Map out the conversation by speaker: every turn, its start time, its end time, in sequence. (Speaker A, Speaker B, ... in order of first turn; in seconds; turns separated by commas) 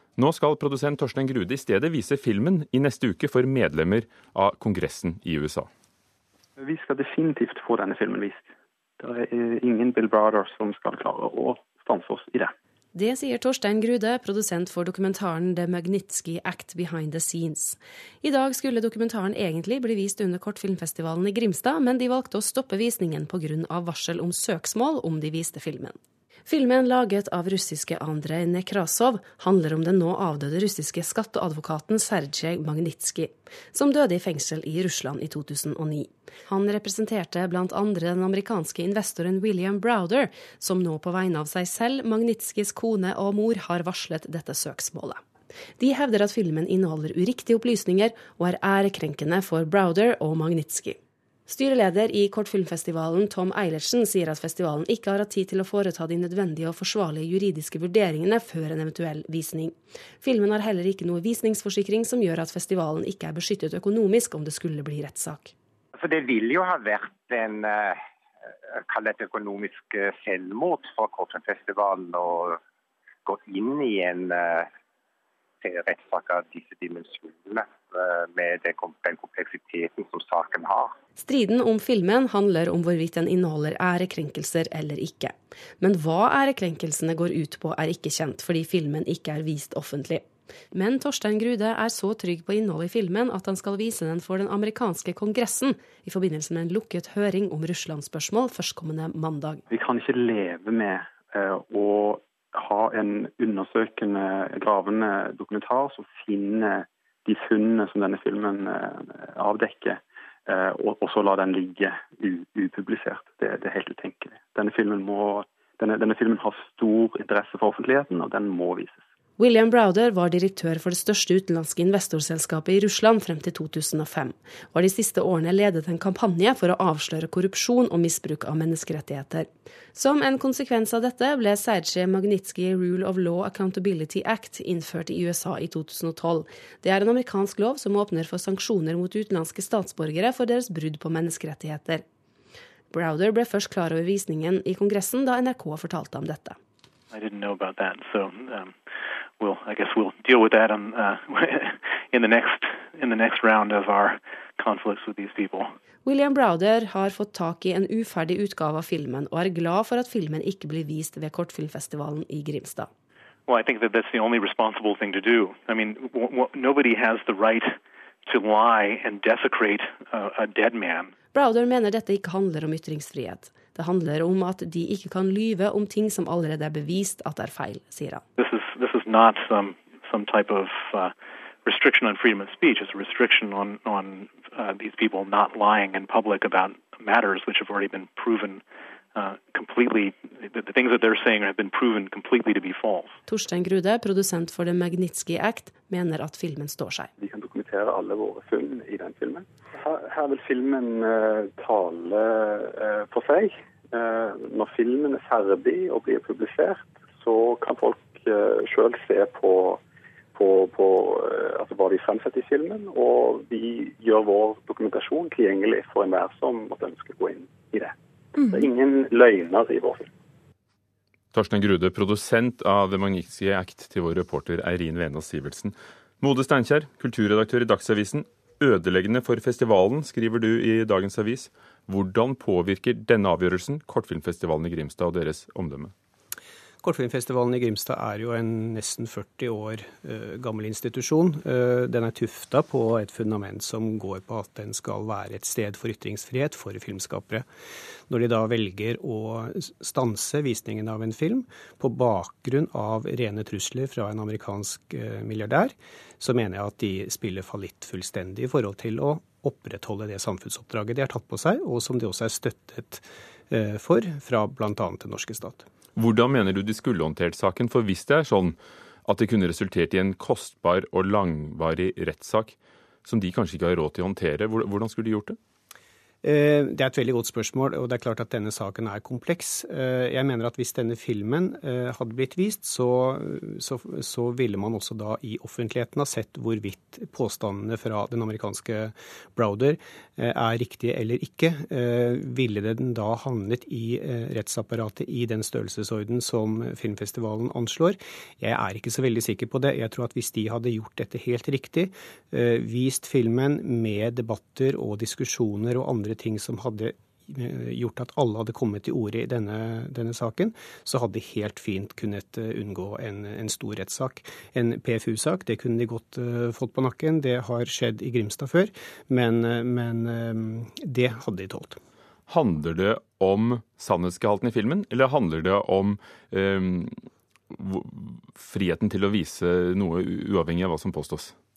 Speaker A: 0.2-5.7, Speaker B: 6.6-8.5, Speaker B: 9.0-12.5, Speaker C: 12.9-45.2, Speaker C: 45.8-65.5, Speaker D: 66.0-68.0, Speaker D: 68.7-72.6, Speaker D: 73.2-74.7, Speaker D: 75.6-80.9, Speaker C: 81.2-99.6, Speaker B: 99.7-119.0, Speaker C: 119.4-142.0, Speaker C: 142.9-146.6, Speaker E: 147.1-148.8, Speaker E: 149.4-155.7, Speaker C: 156.0-162.9, Speaker E: 163.5-171.1, Speaker C: 171.3-178.2, Speaker E: 178.4-181.1, Speaker E: 181.6-188.6, Speaker E: 189.1-193.2, Speaker C: 193.3-197.1, Speaker B: 197.2-209.8, Speaker B: 210.3-217.9, Speaker B: 218.4-220.1, Speaker A: 221.3-235.9, Speaker F: 236.8-247.4, Speaker F: 248.1-265.6, Speaker A: 265.9-275.4, Speaker F: 276.2-321.8, Speaker A: 322.3-331.3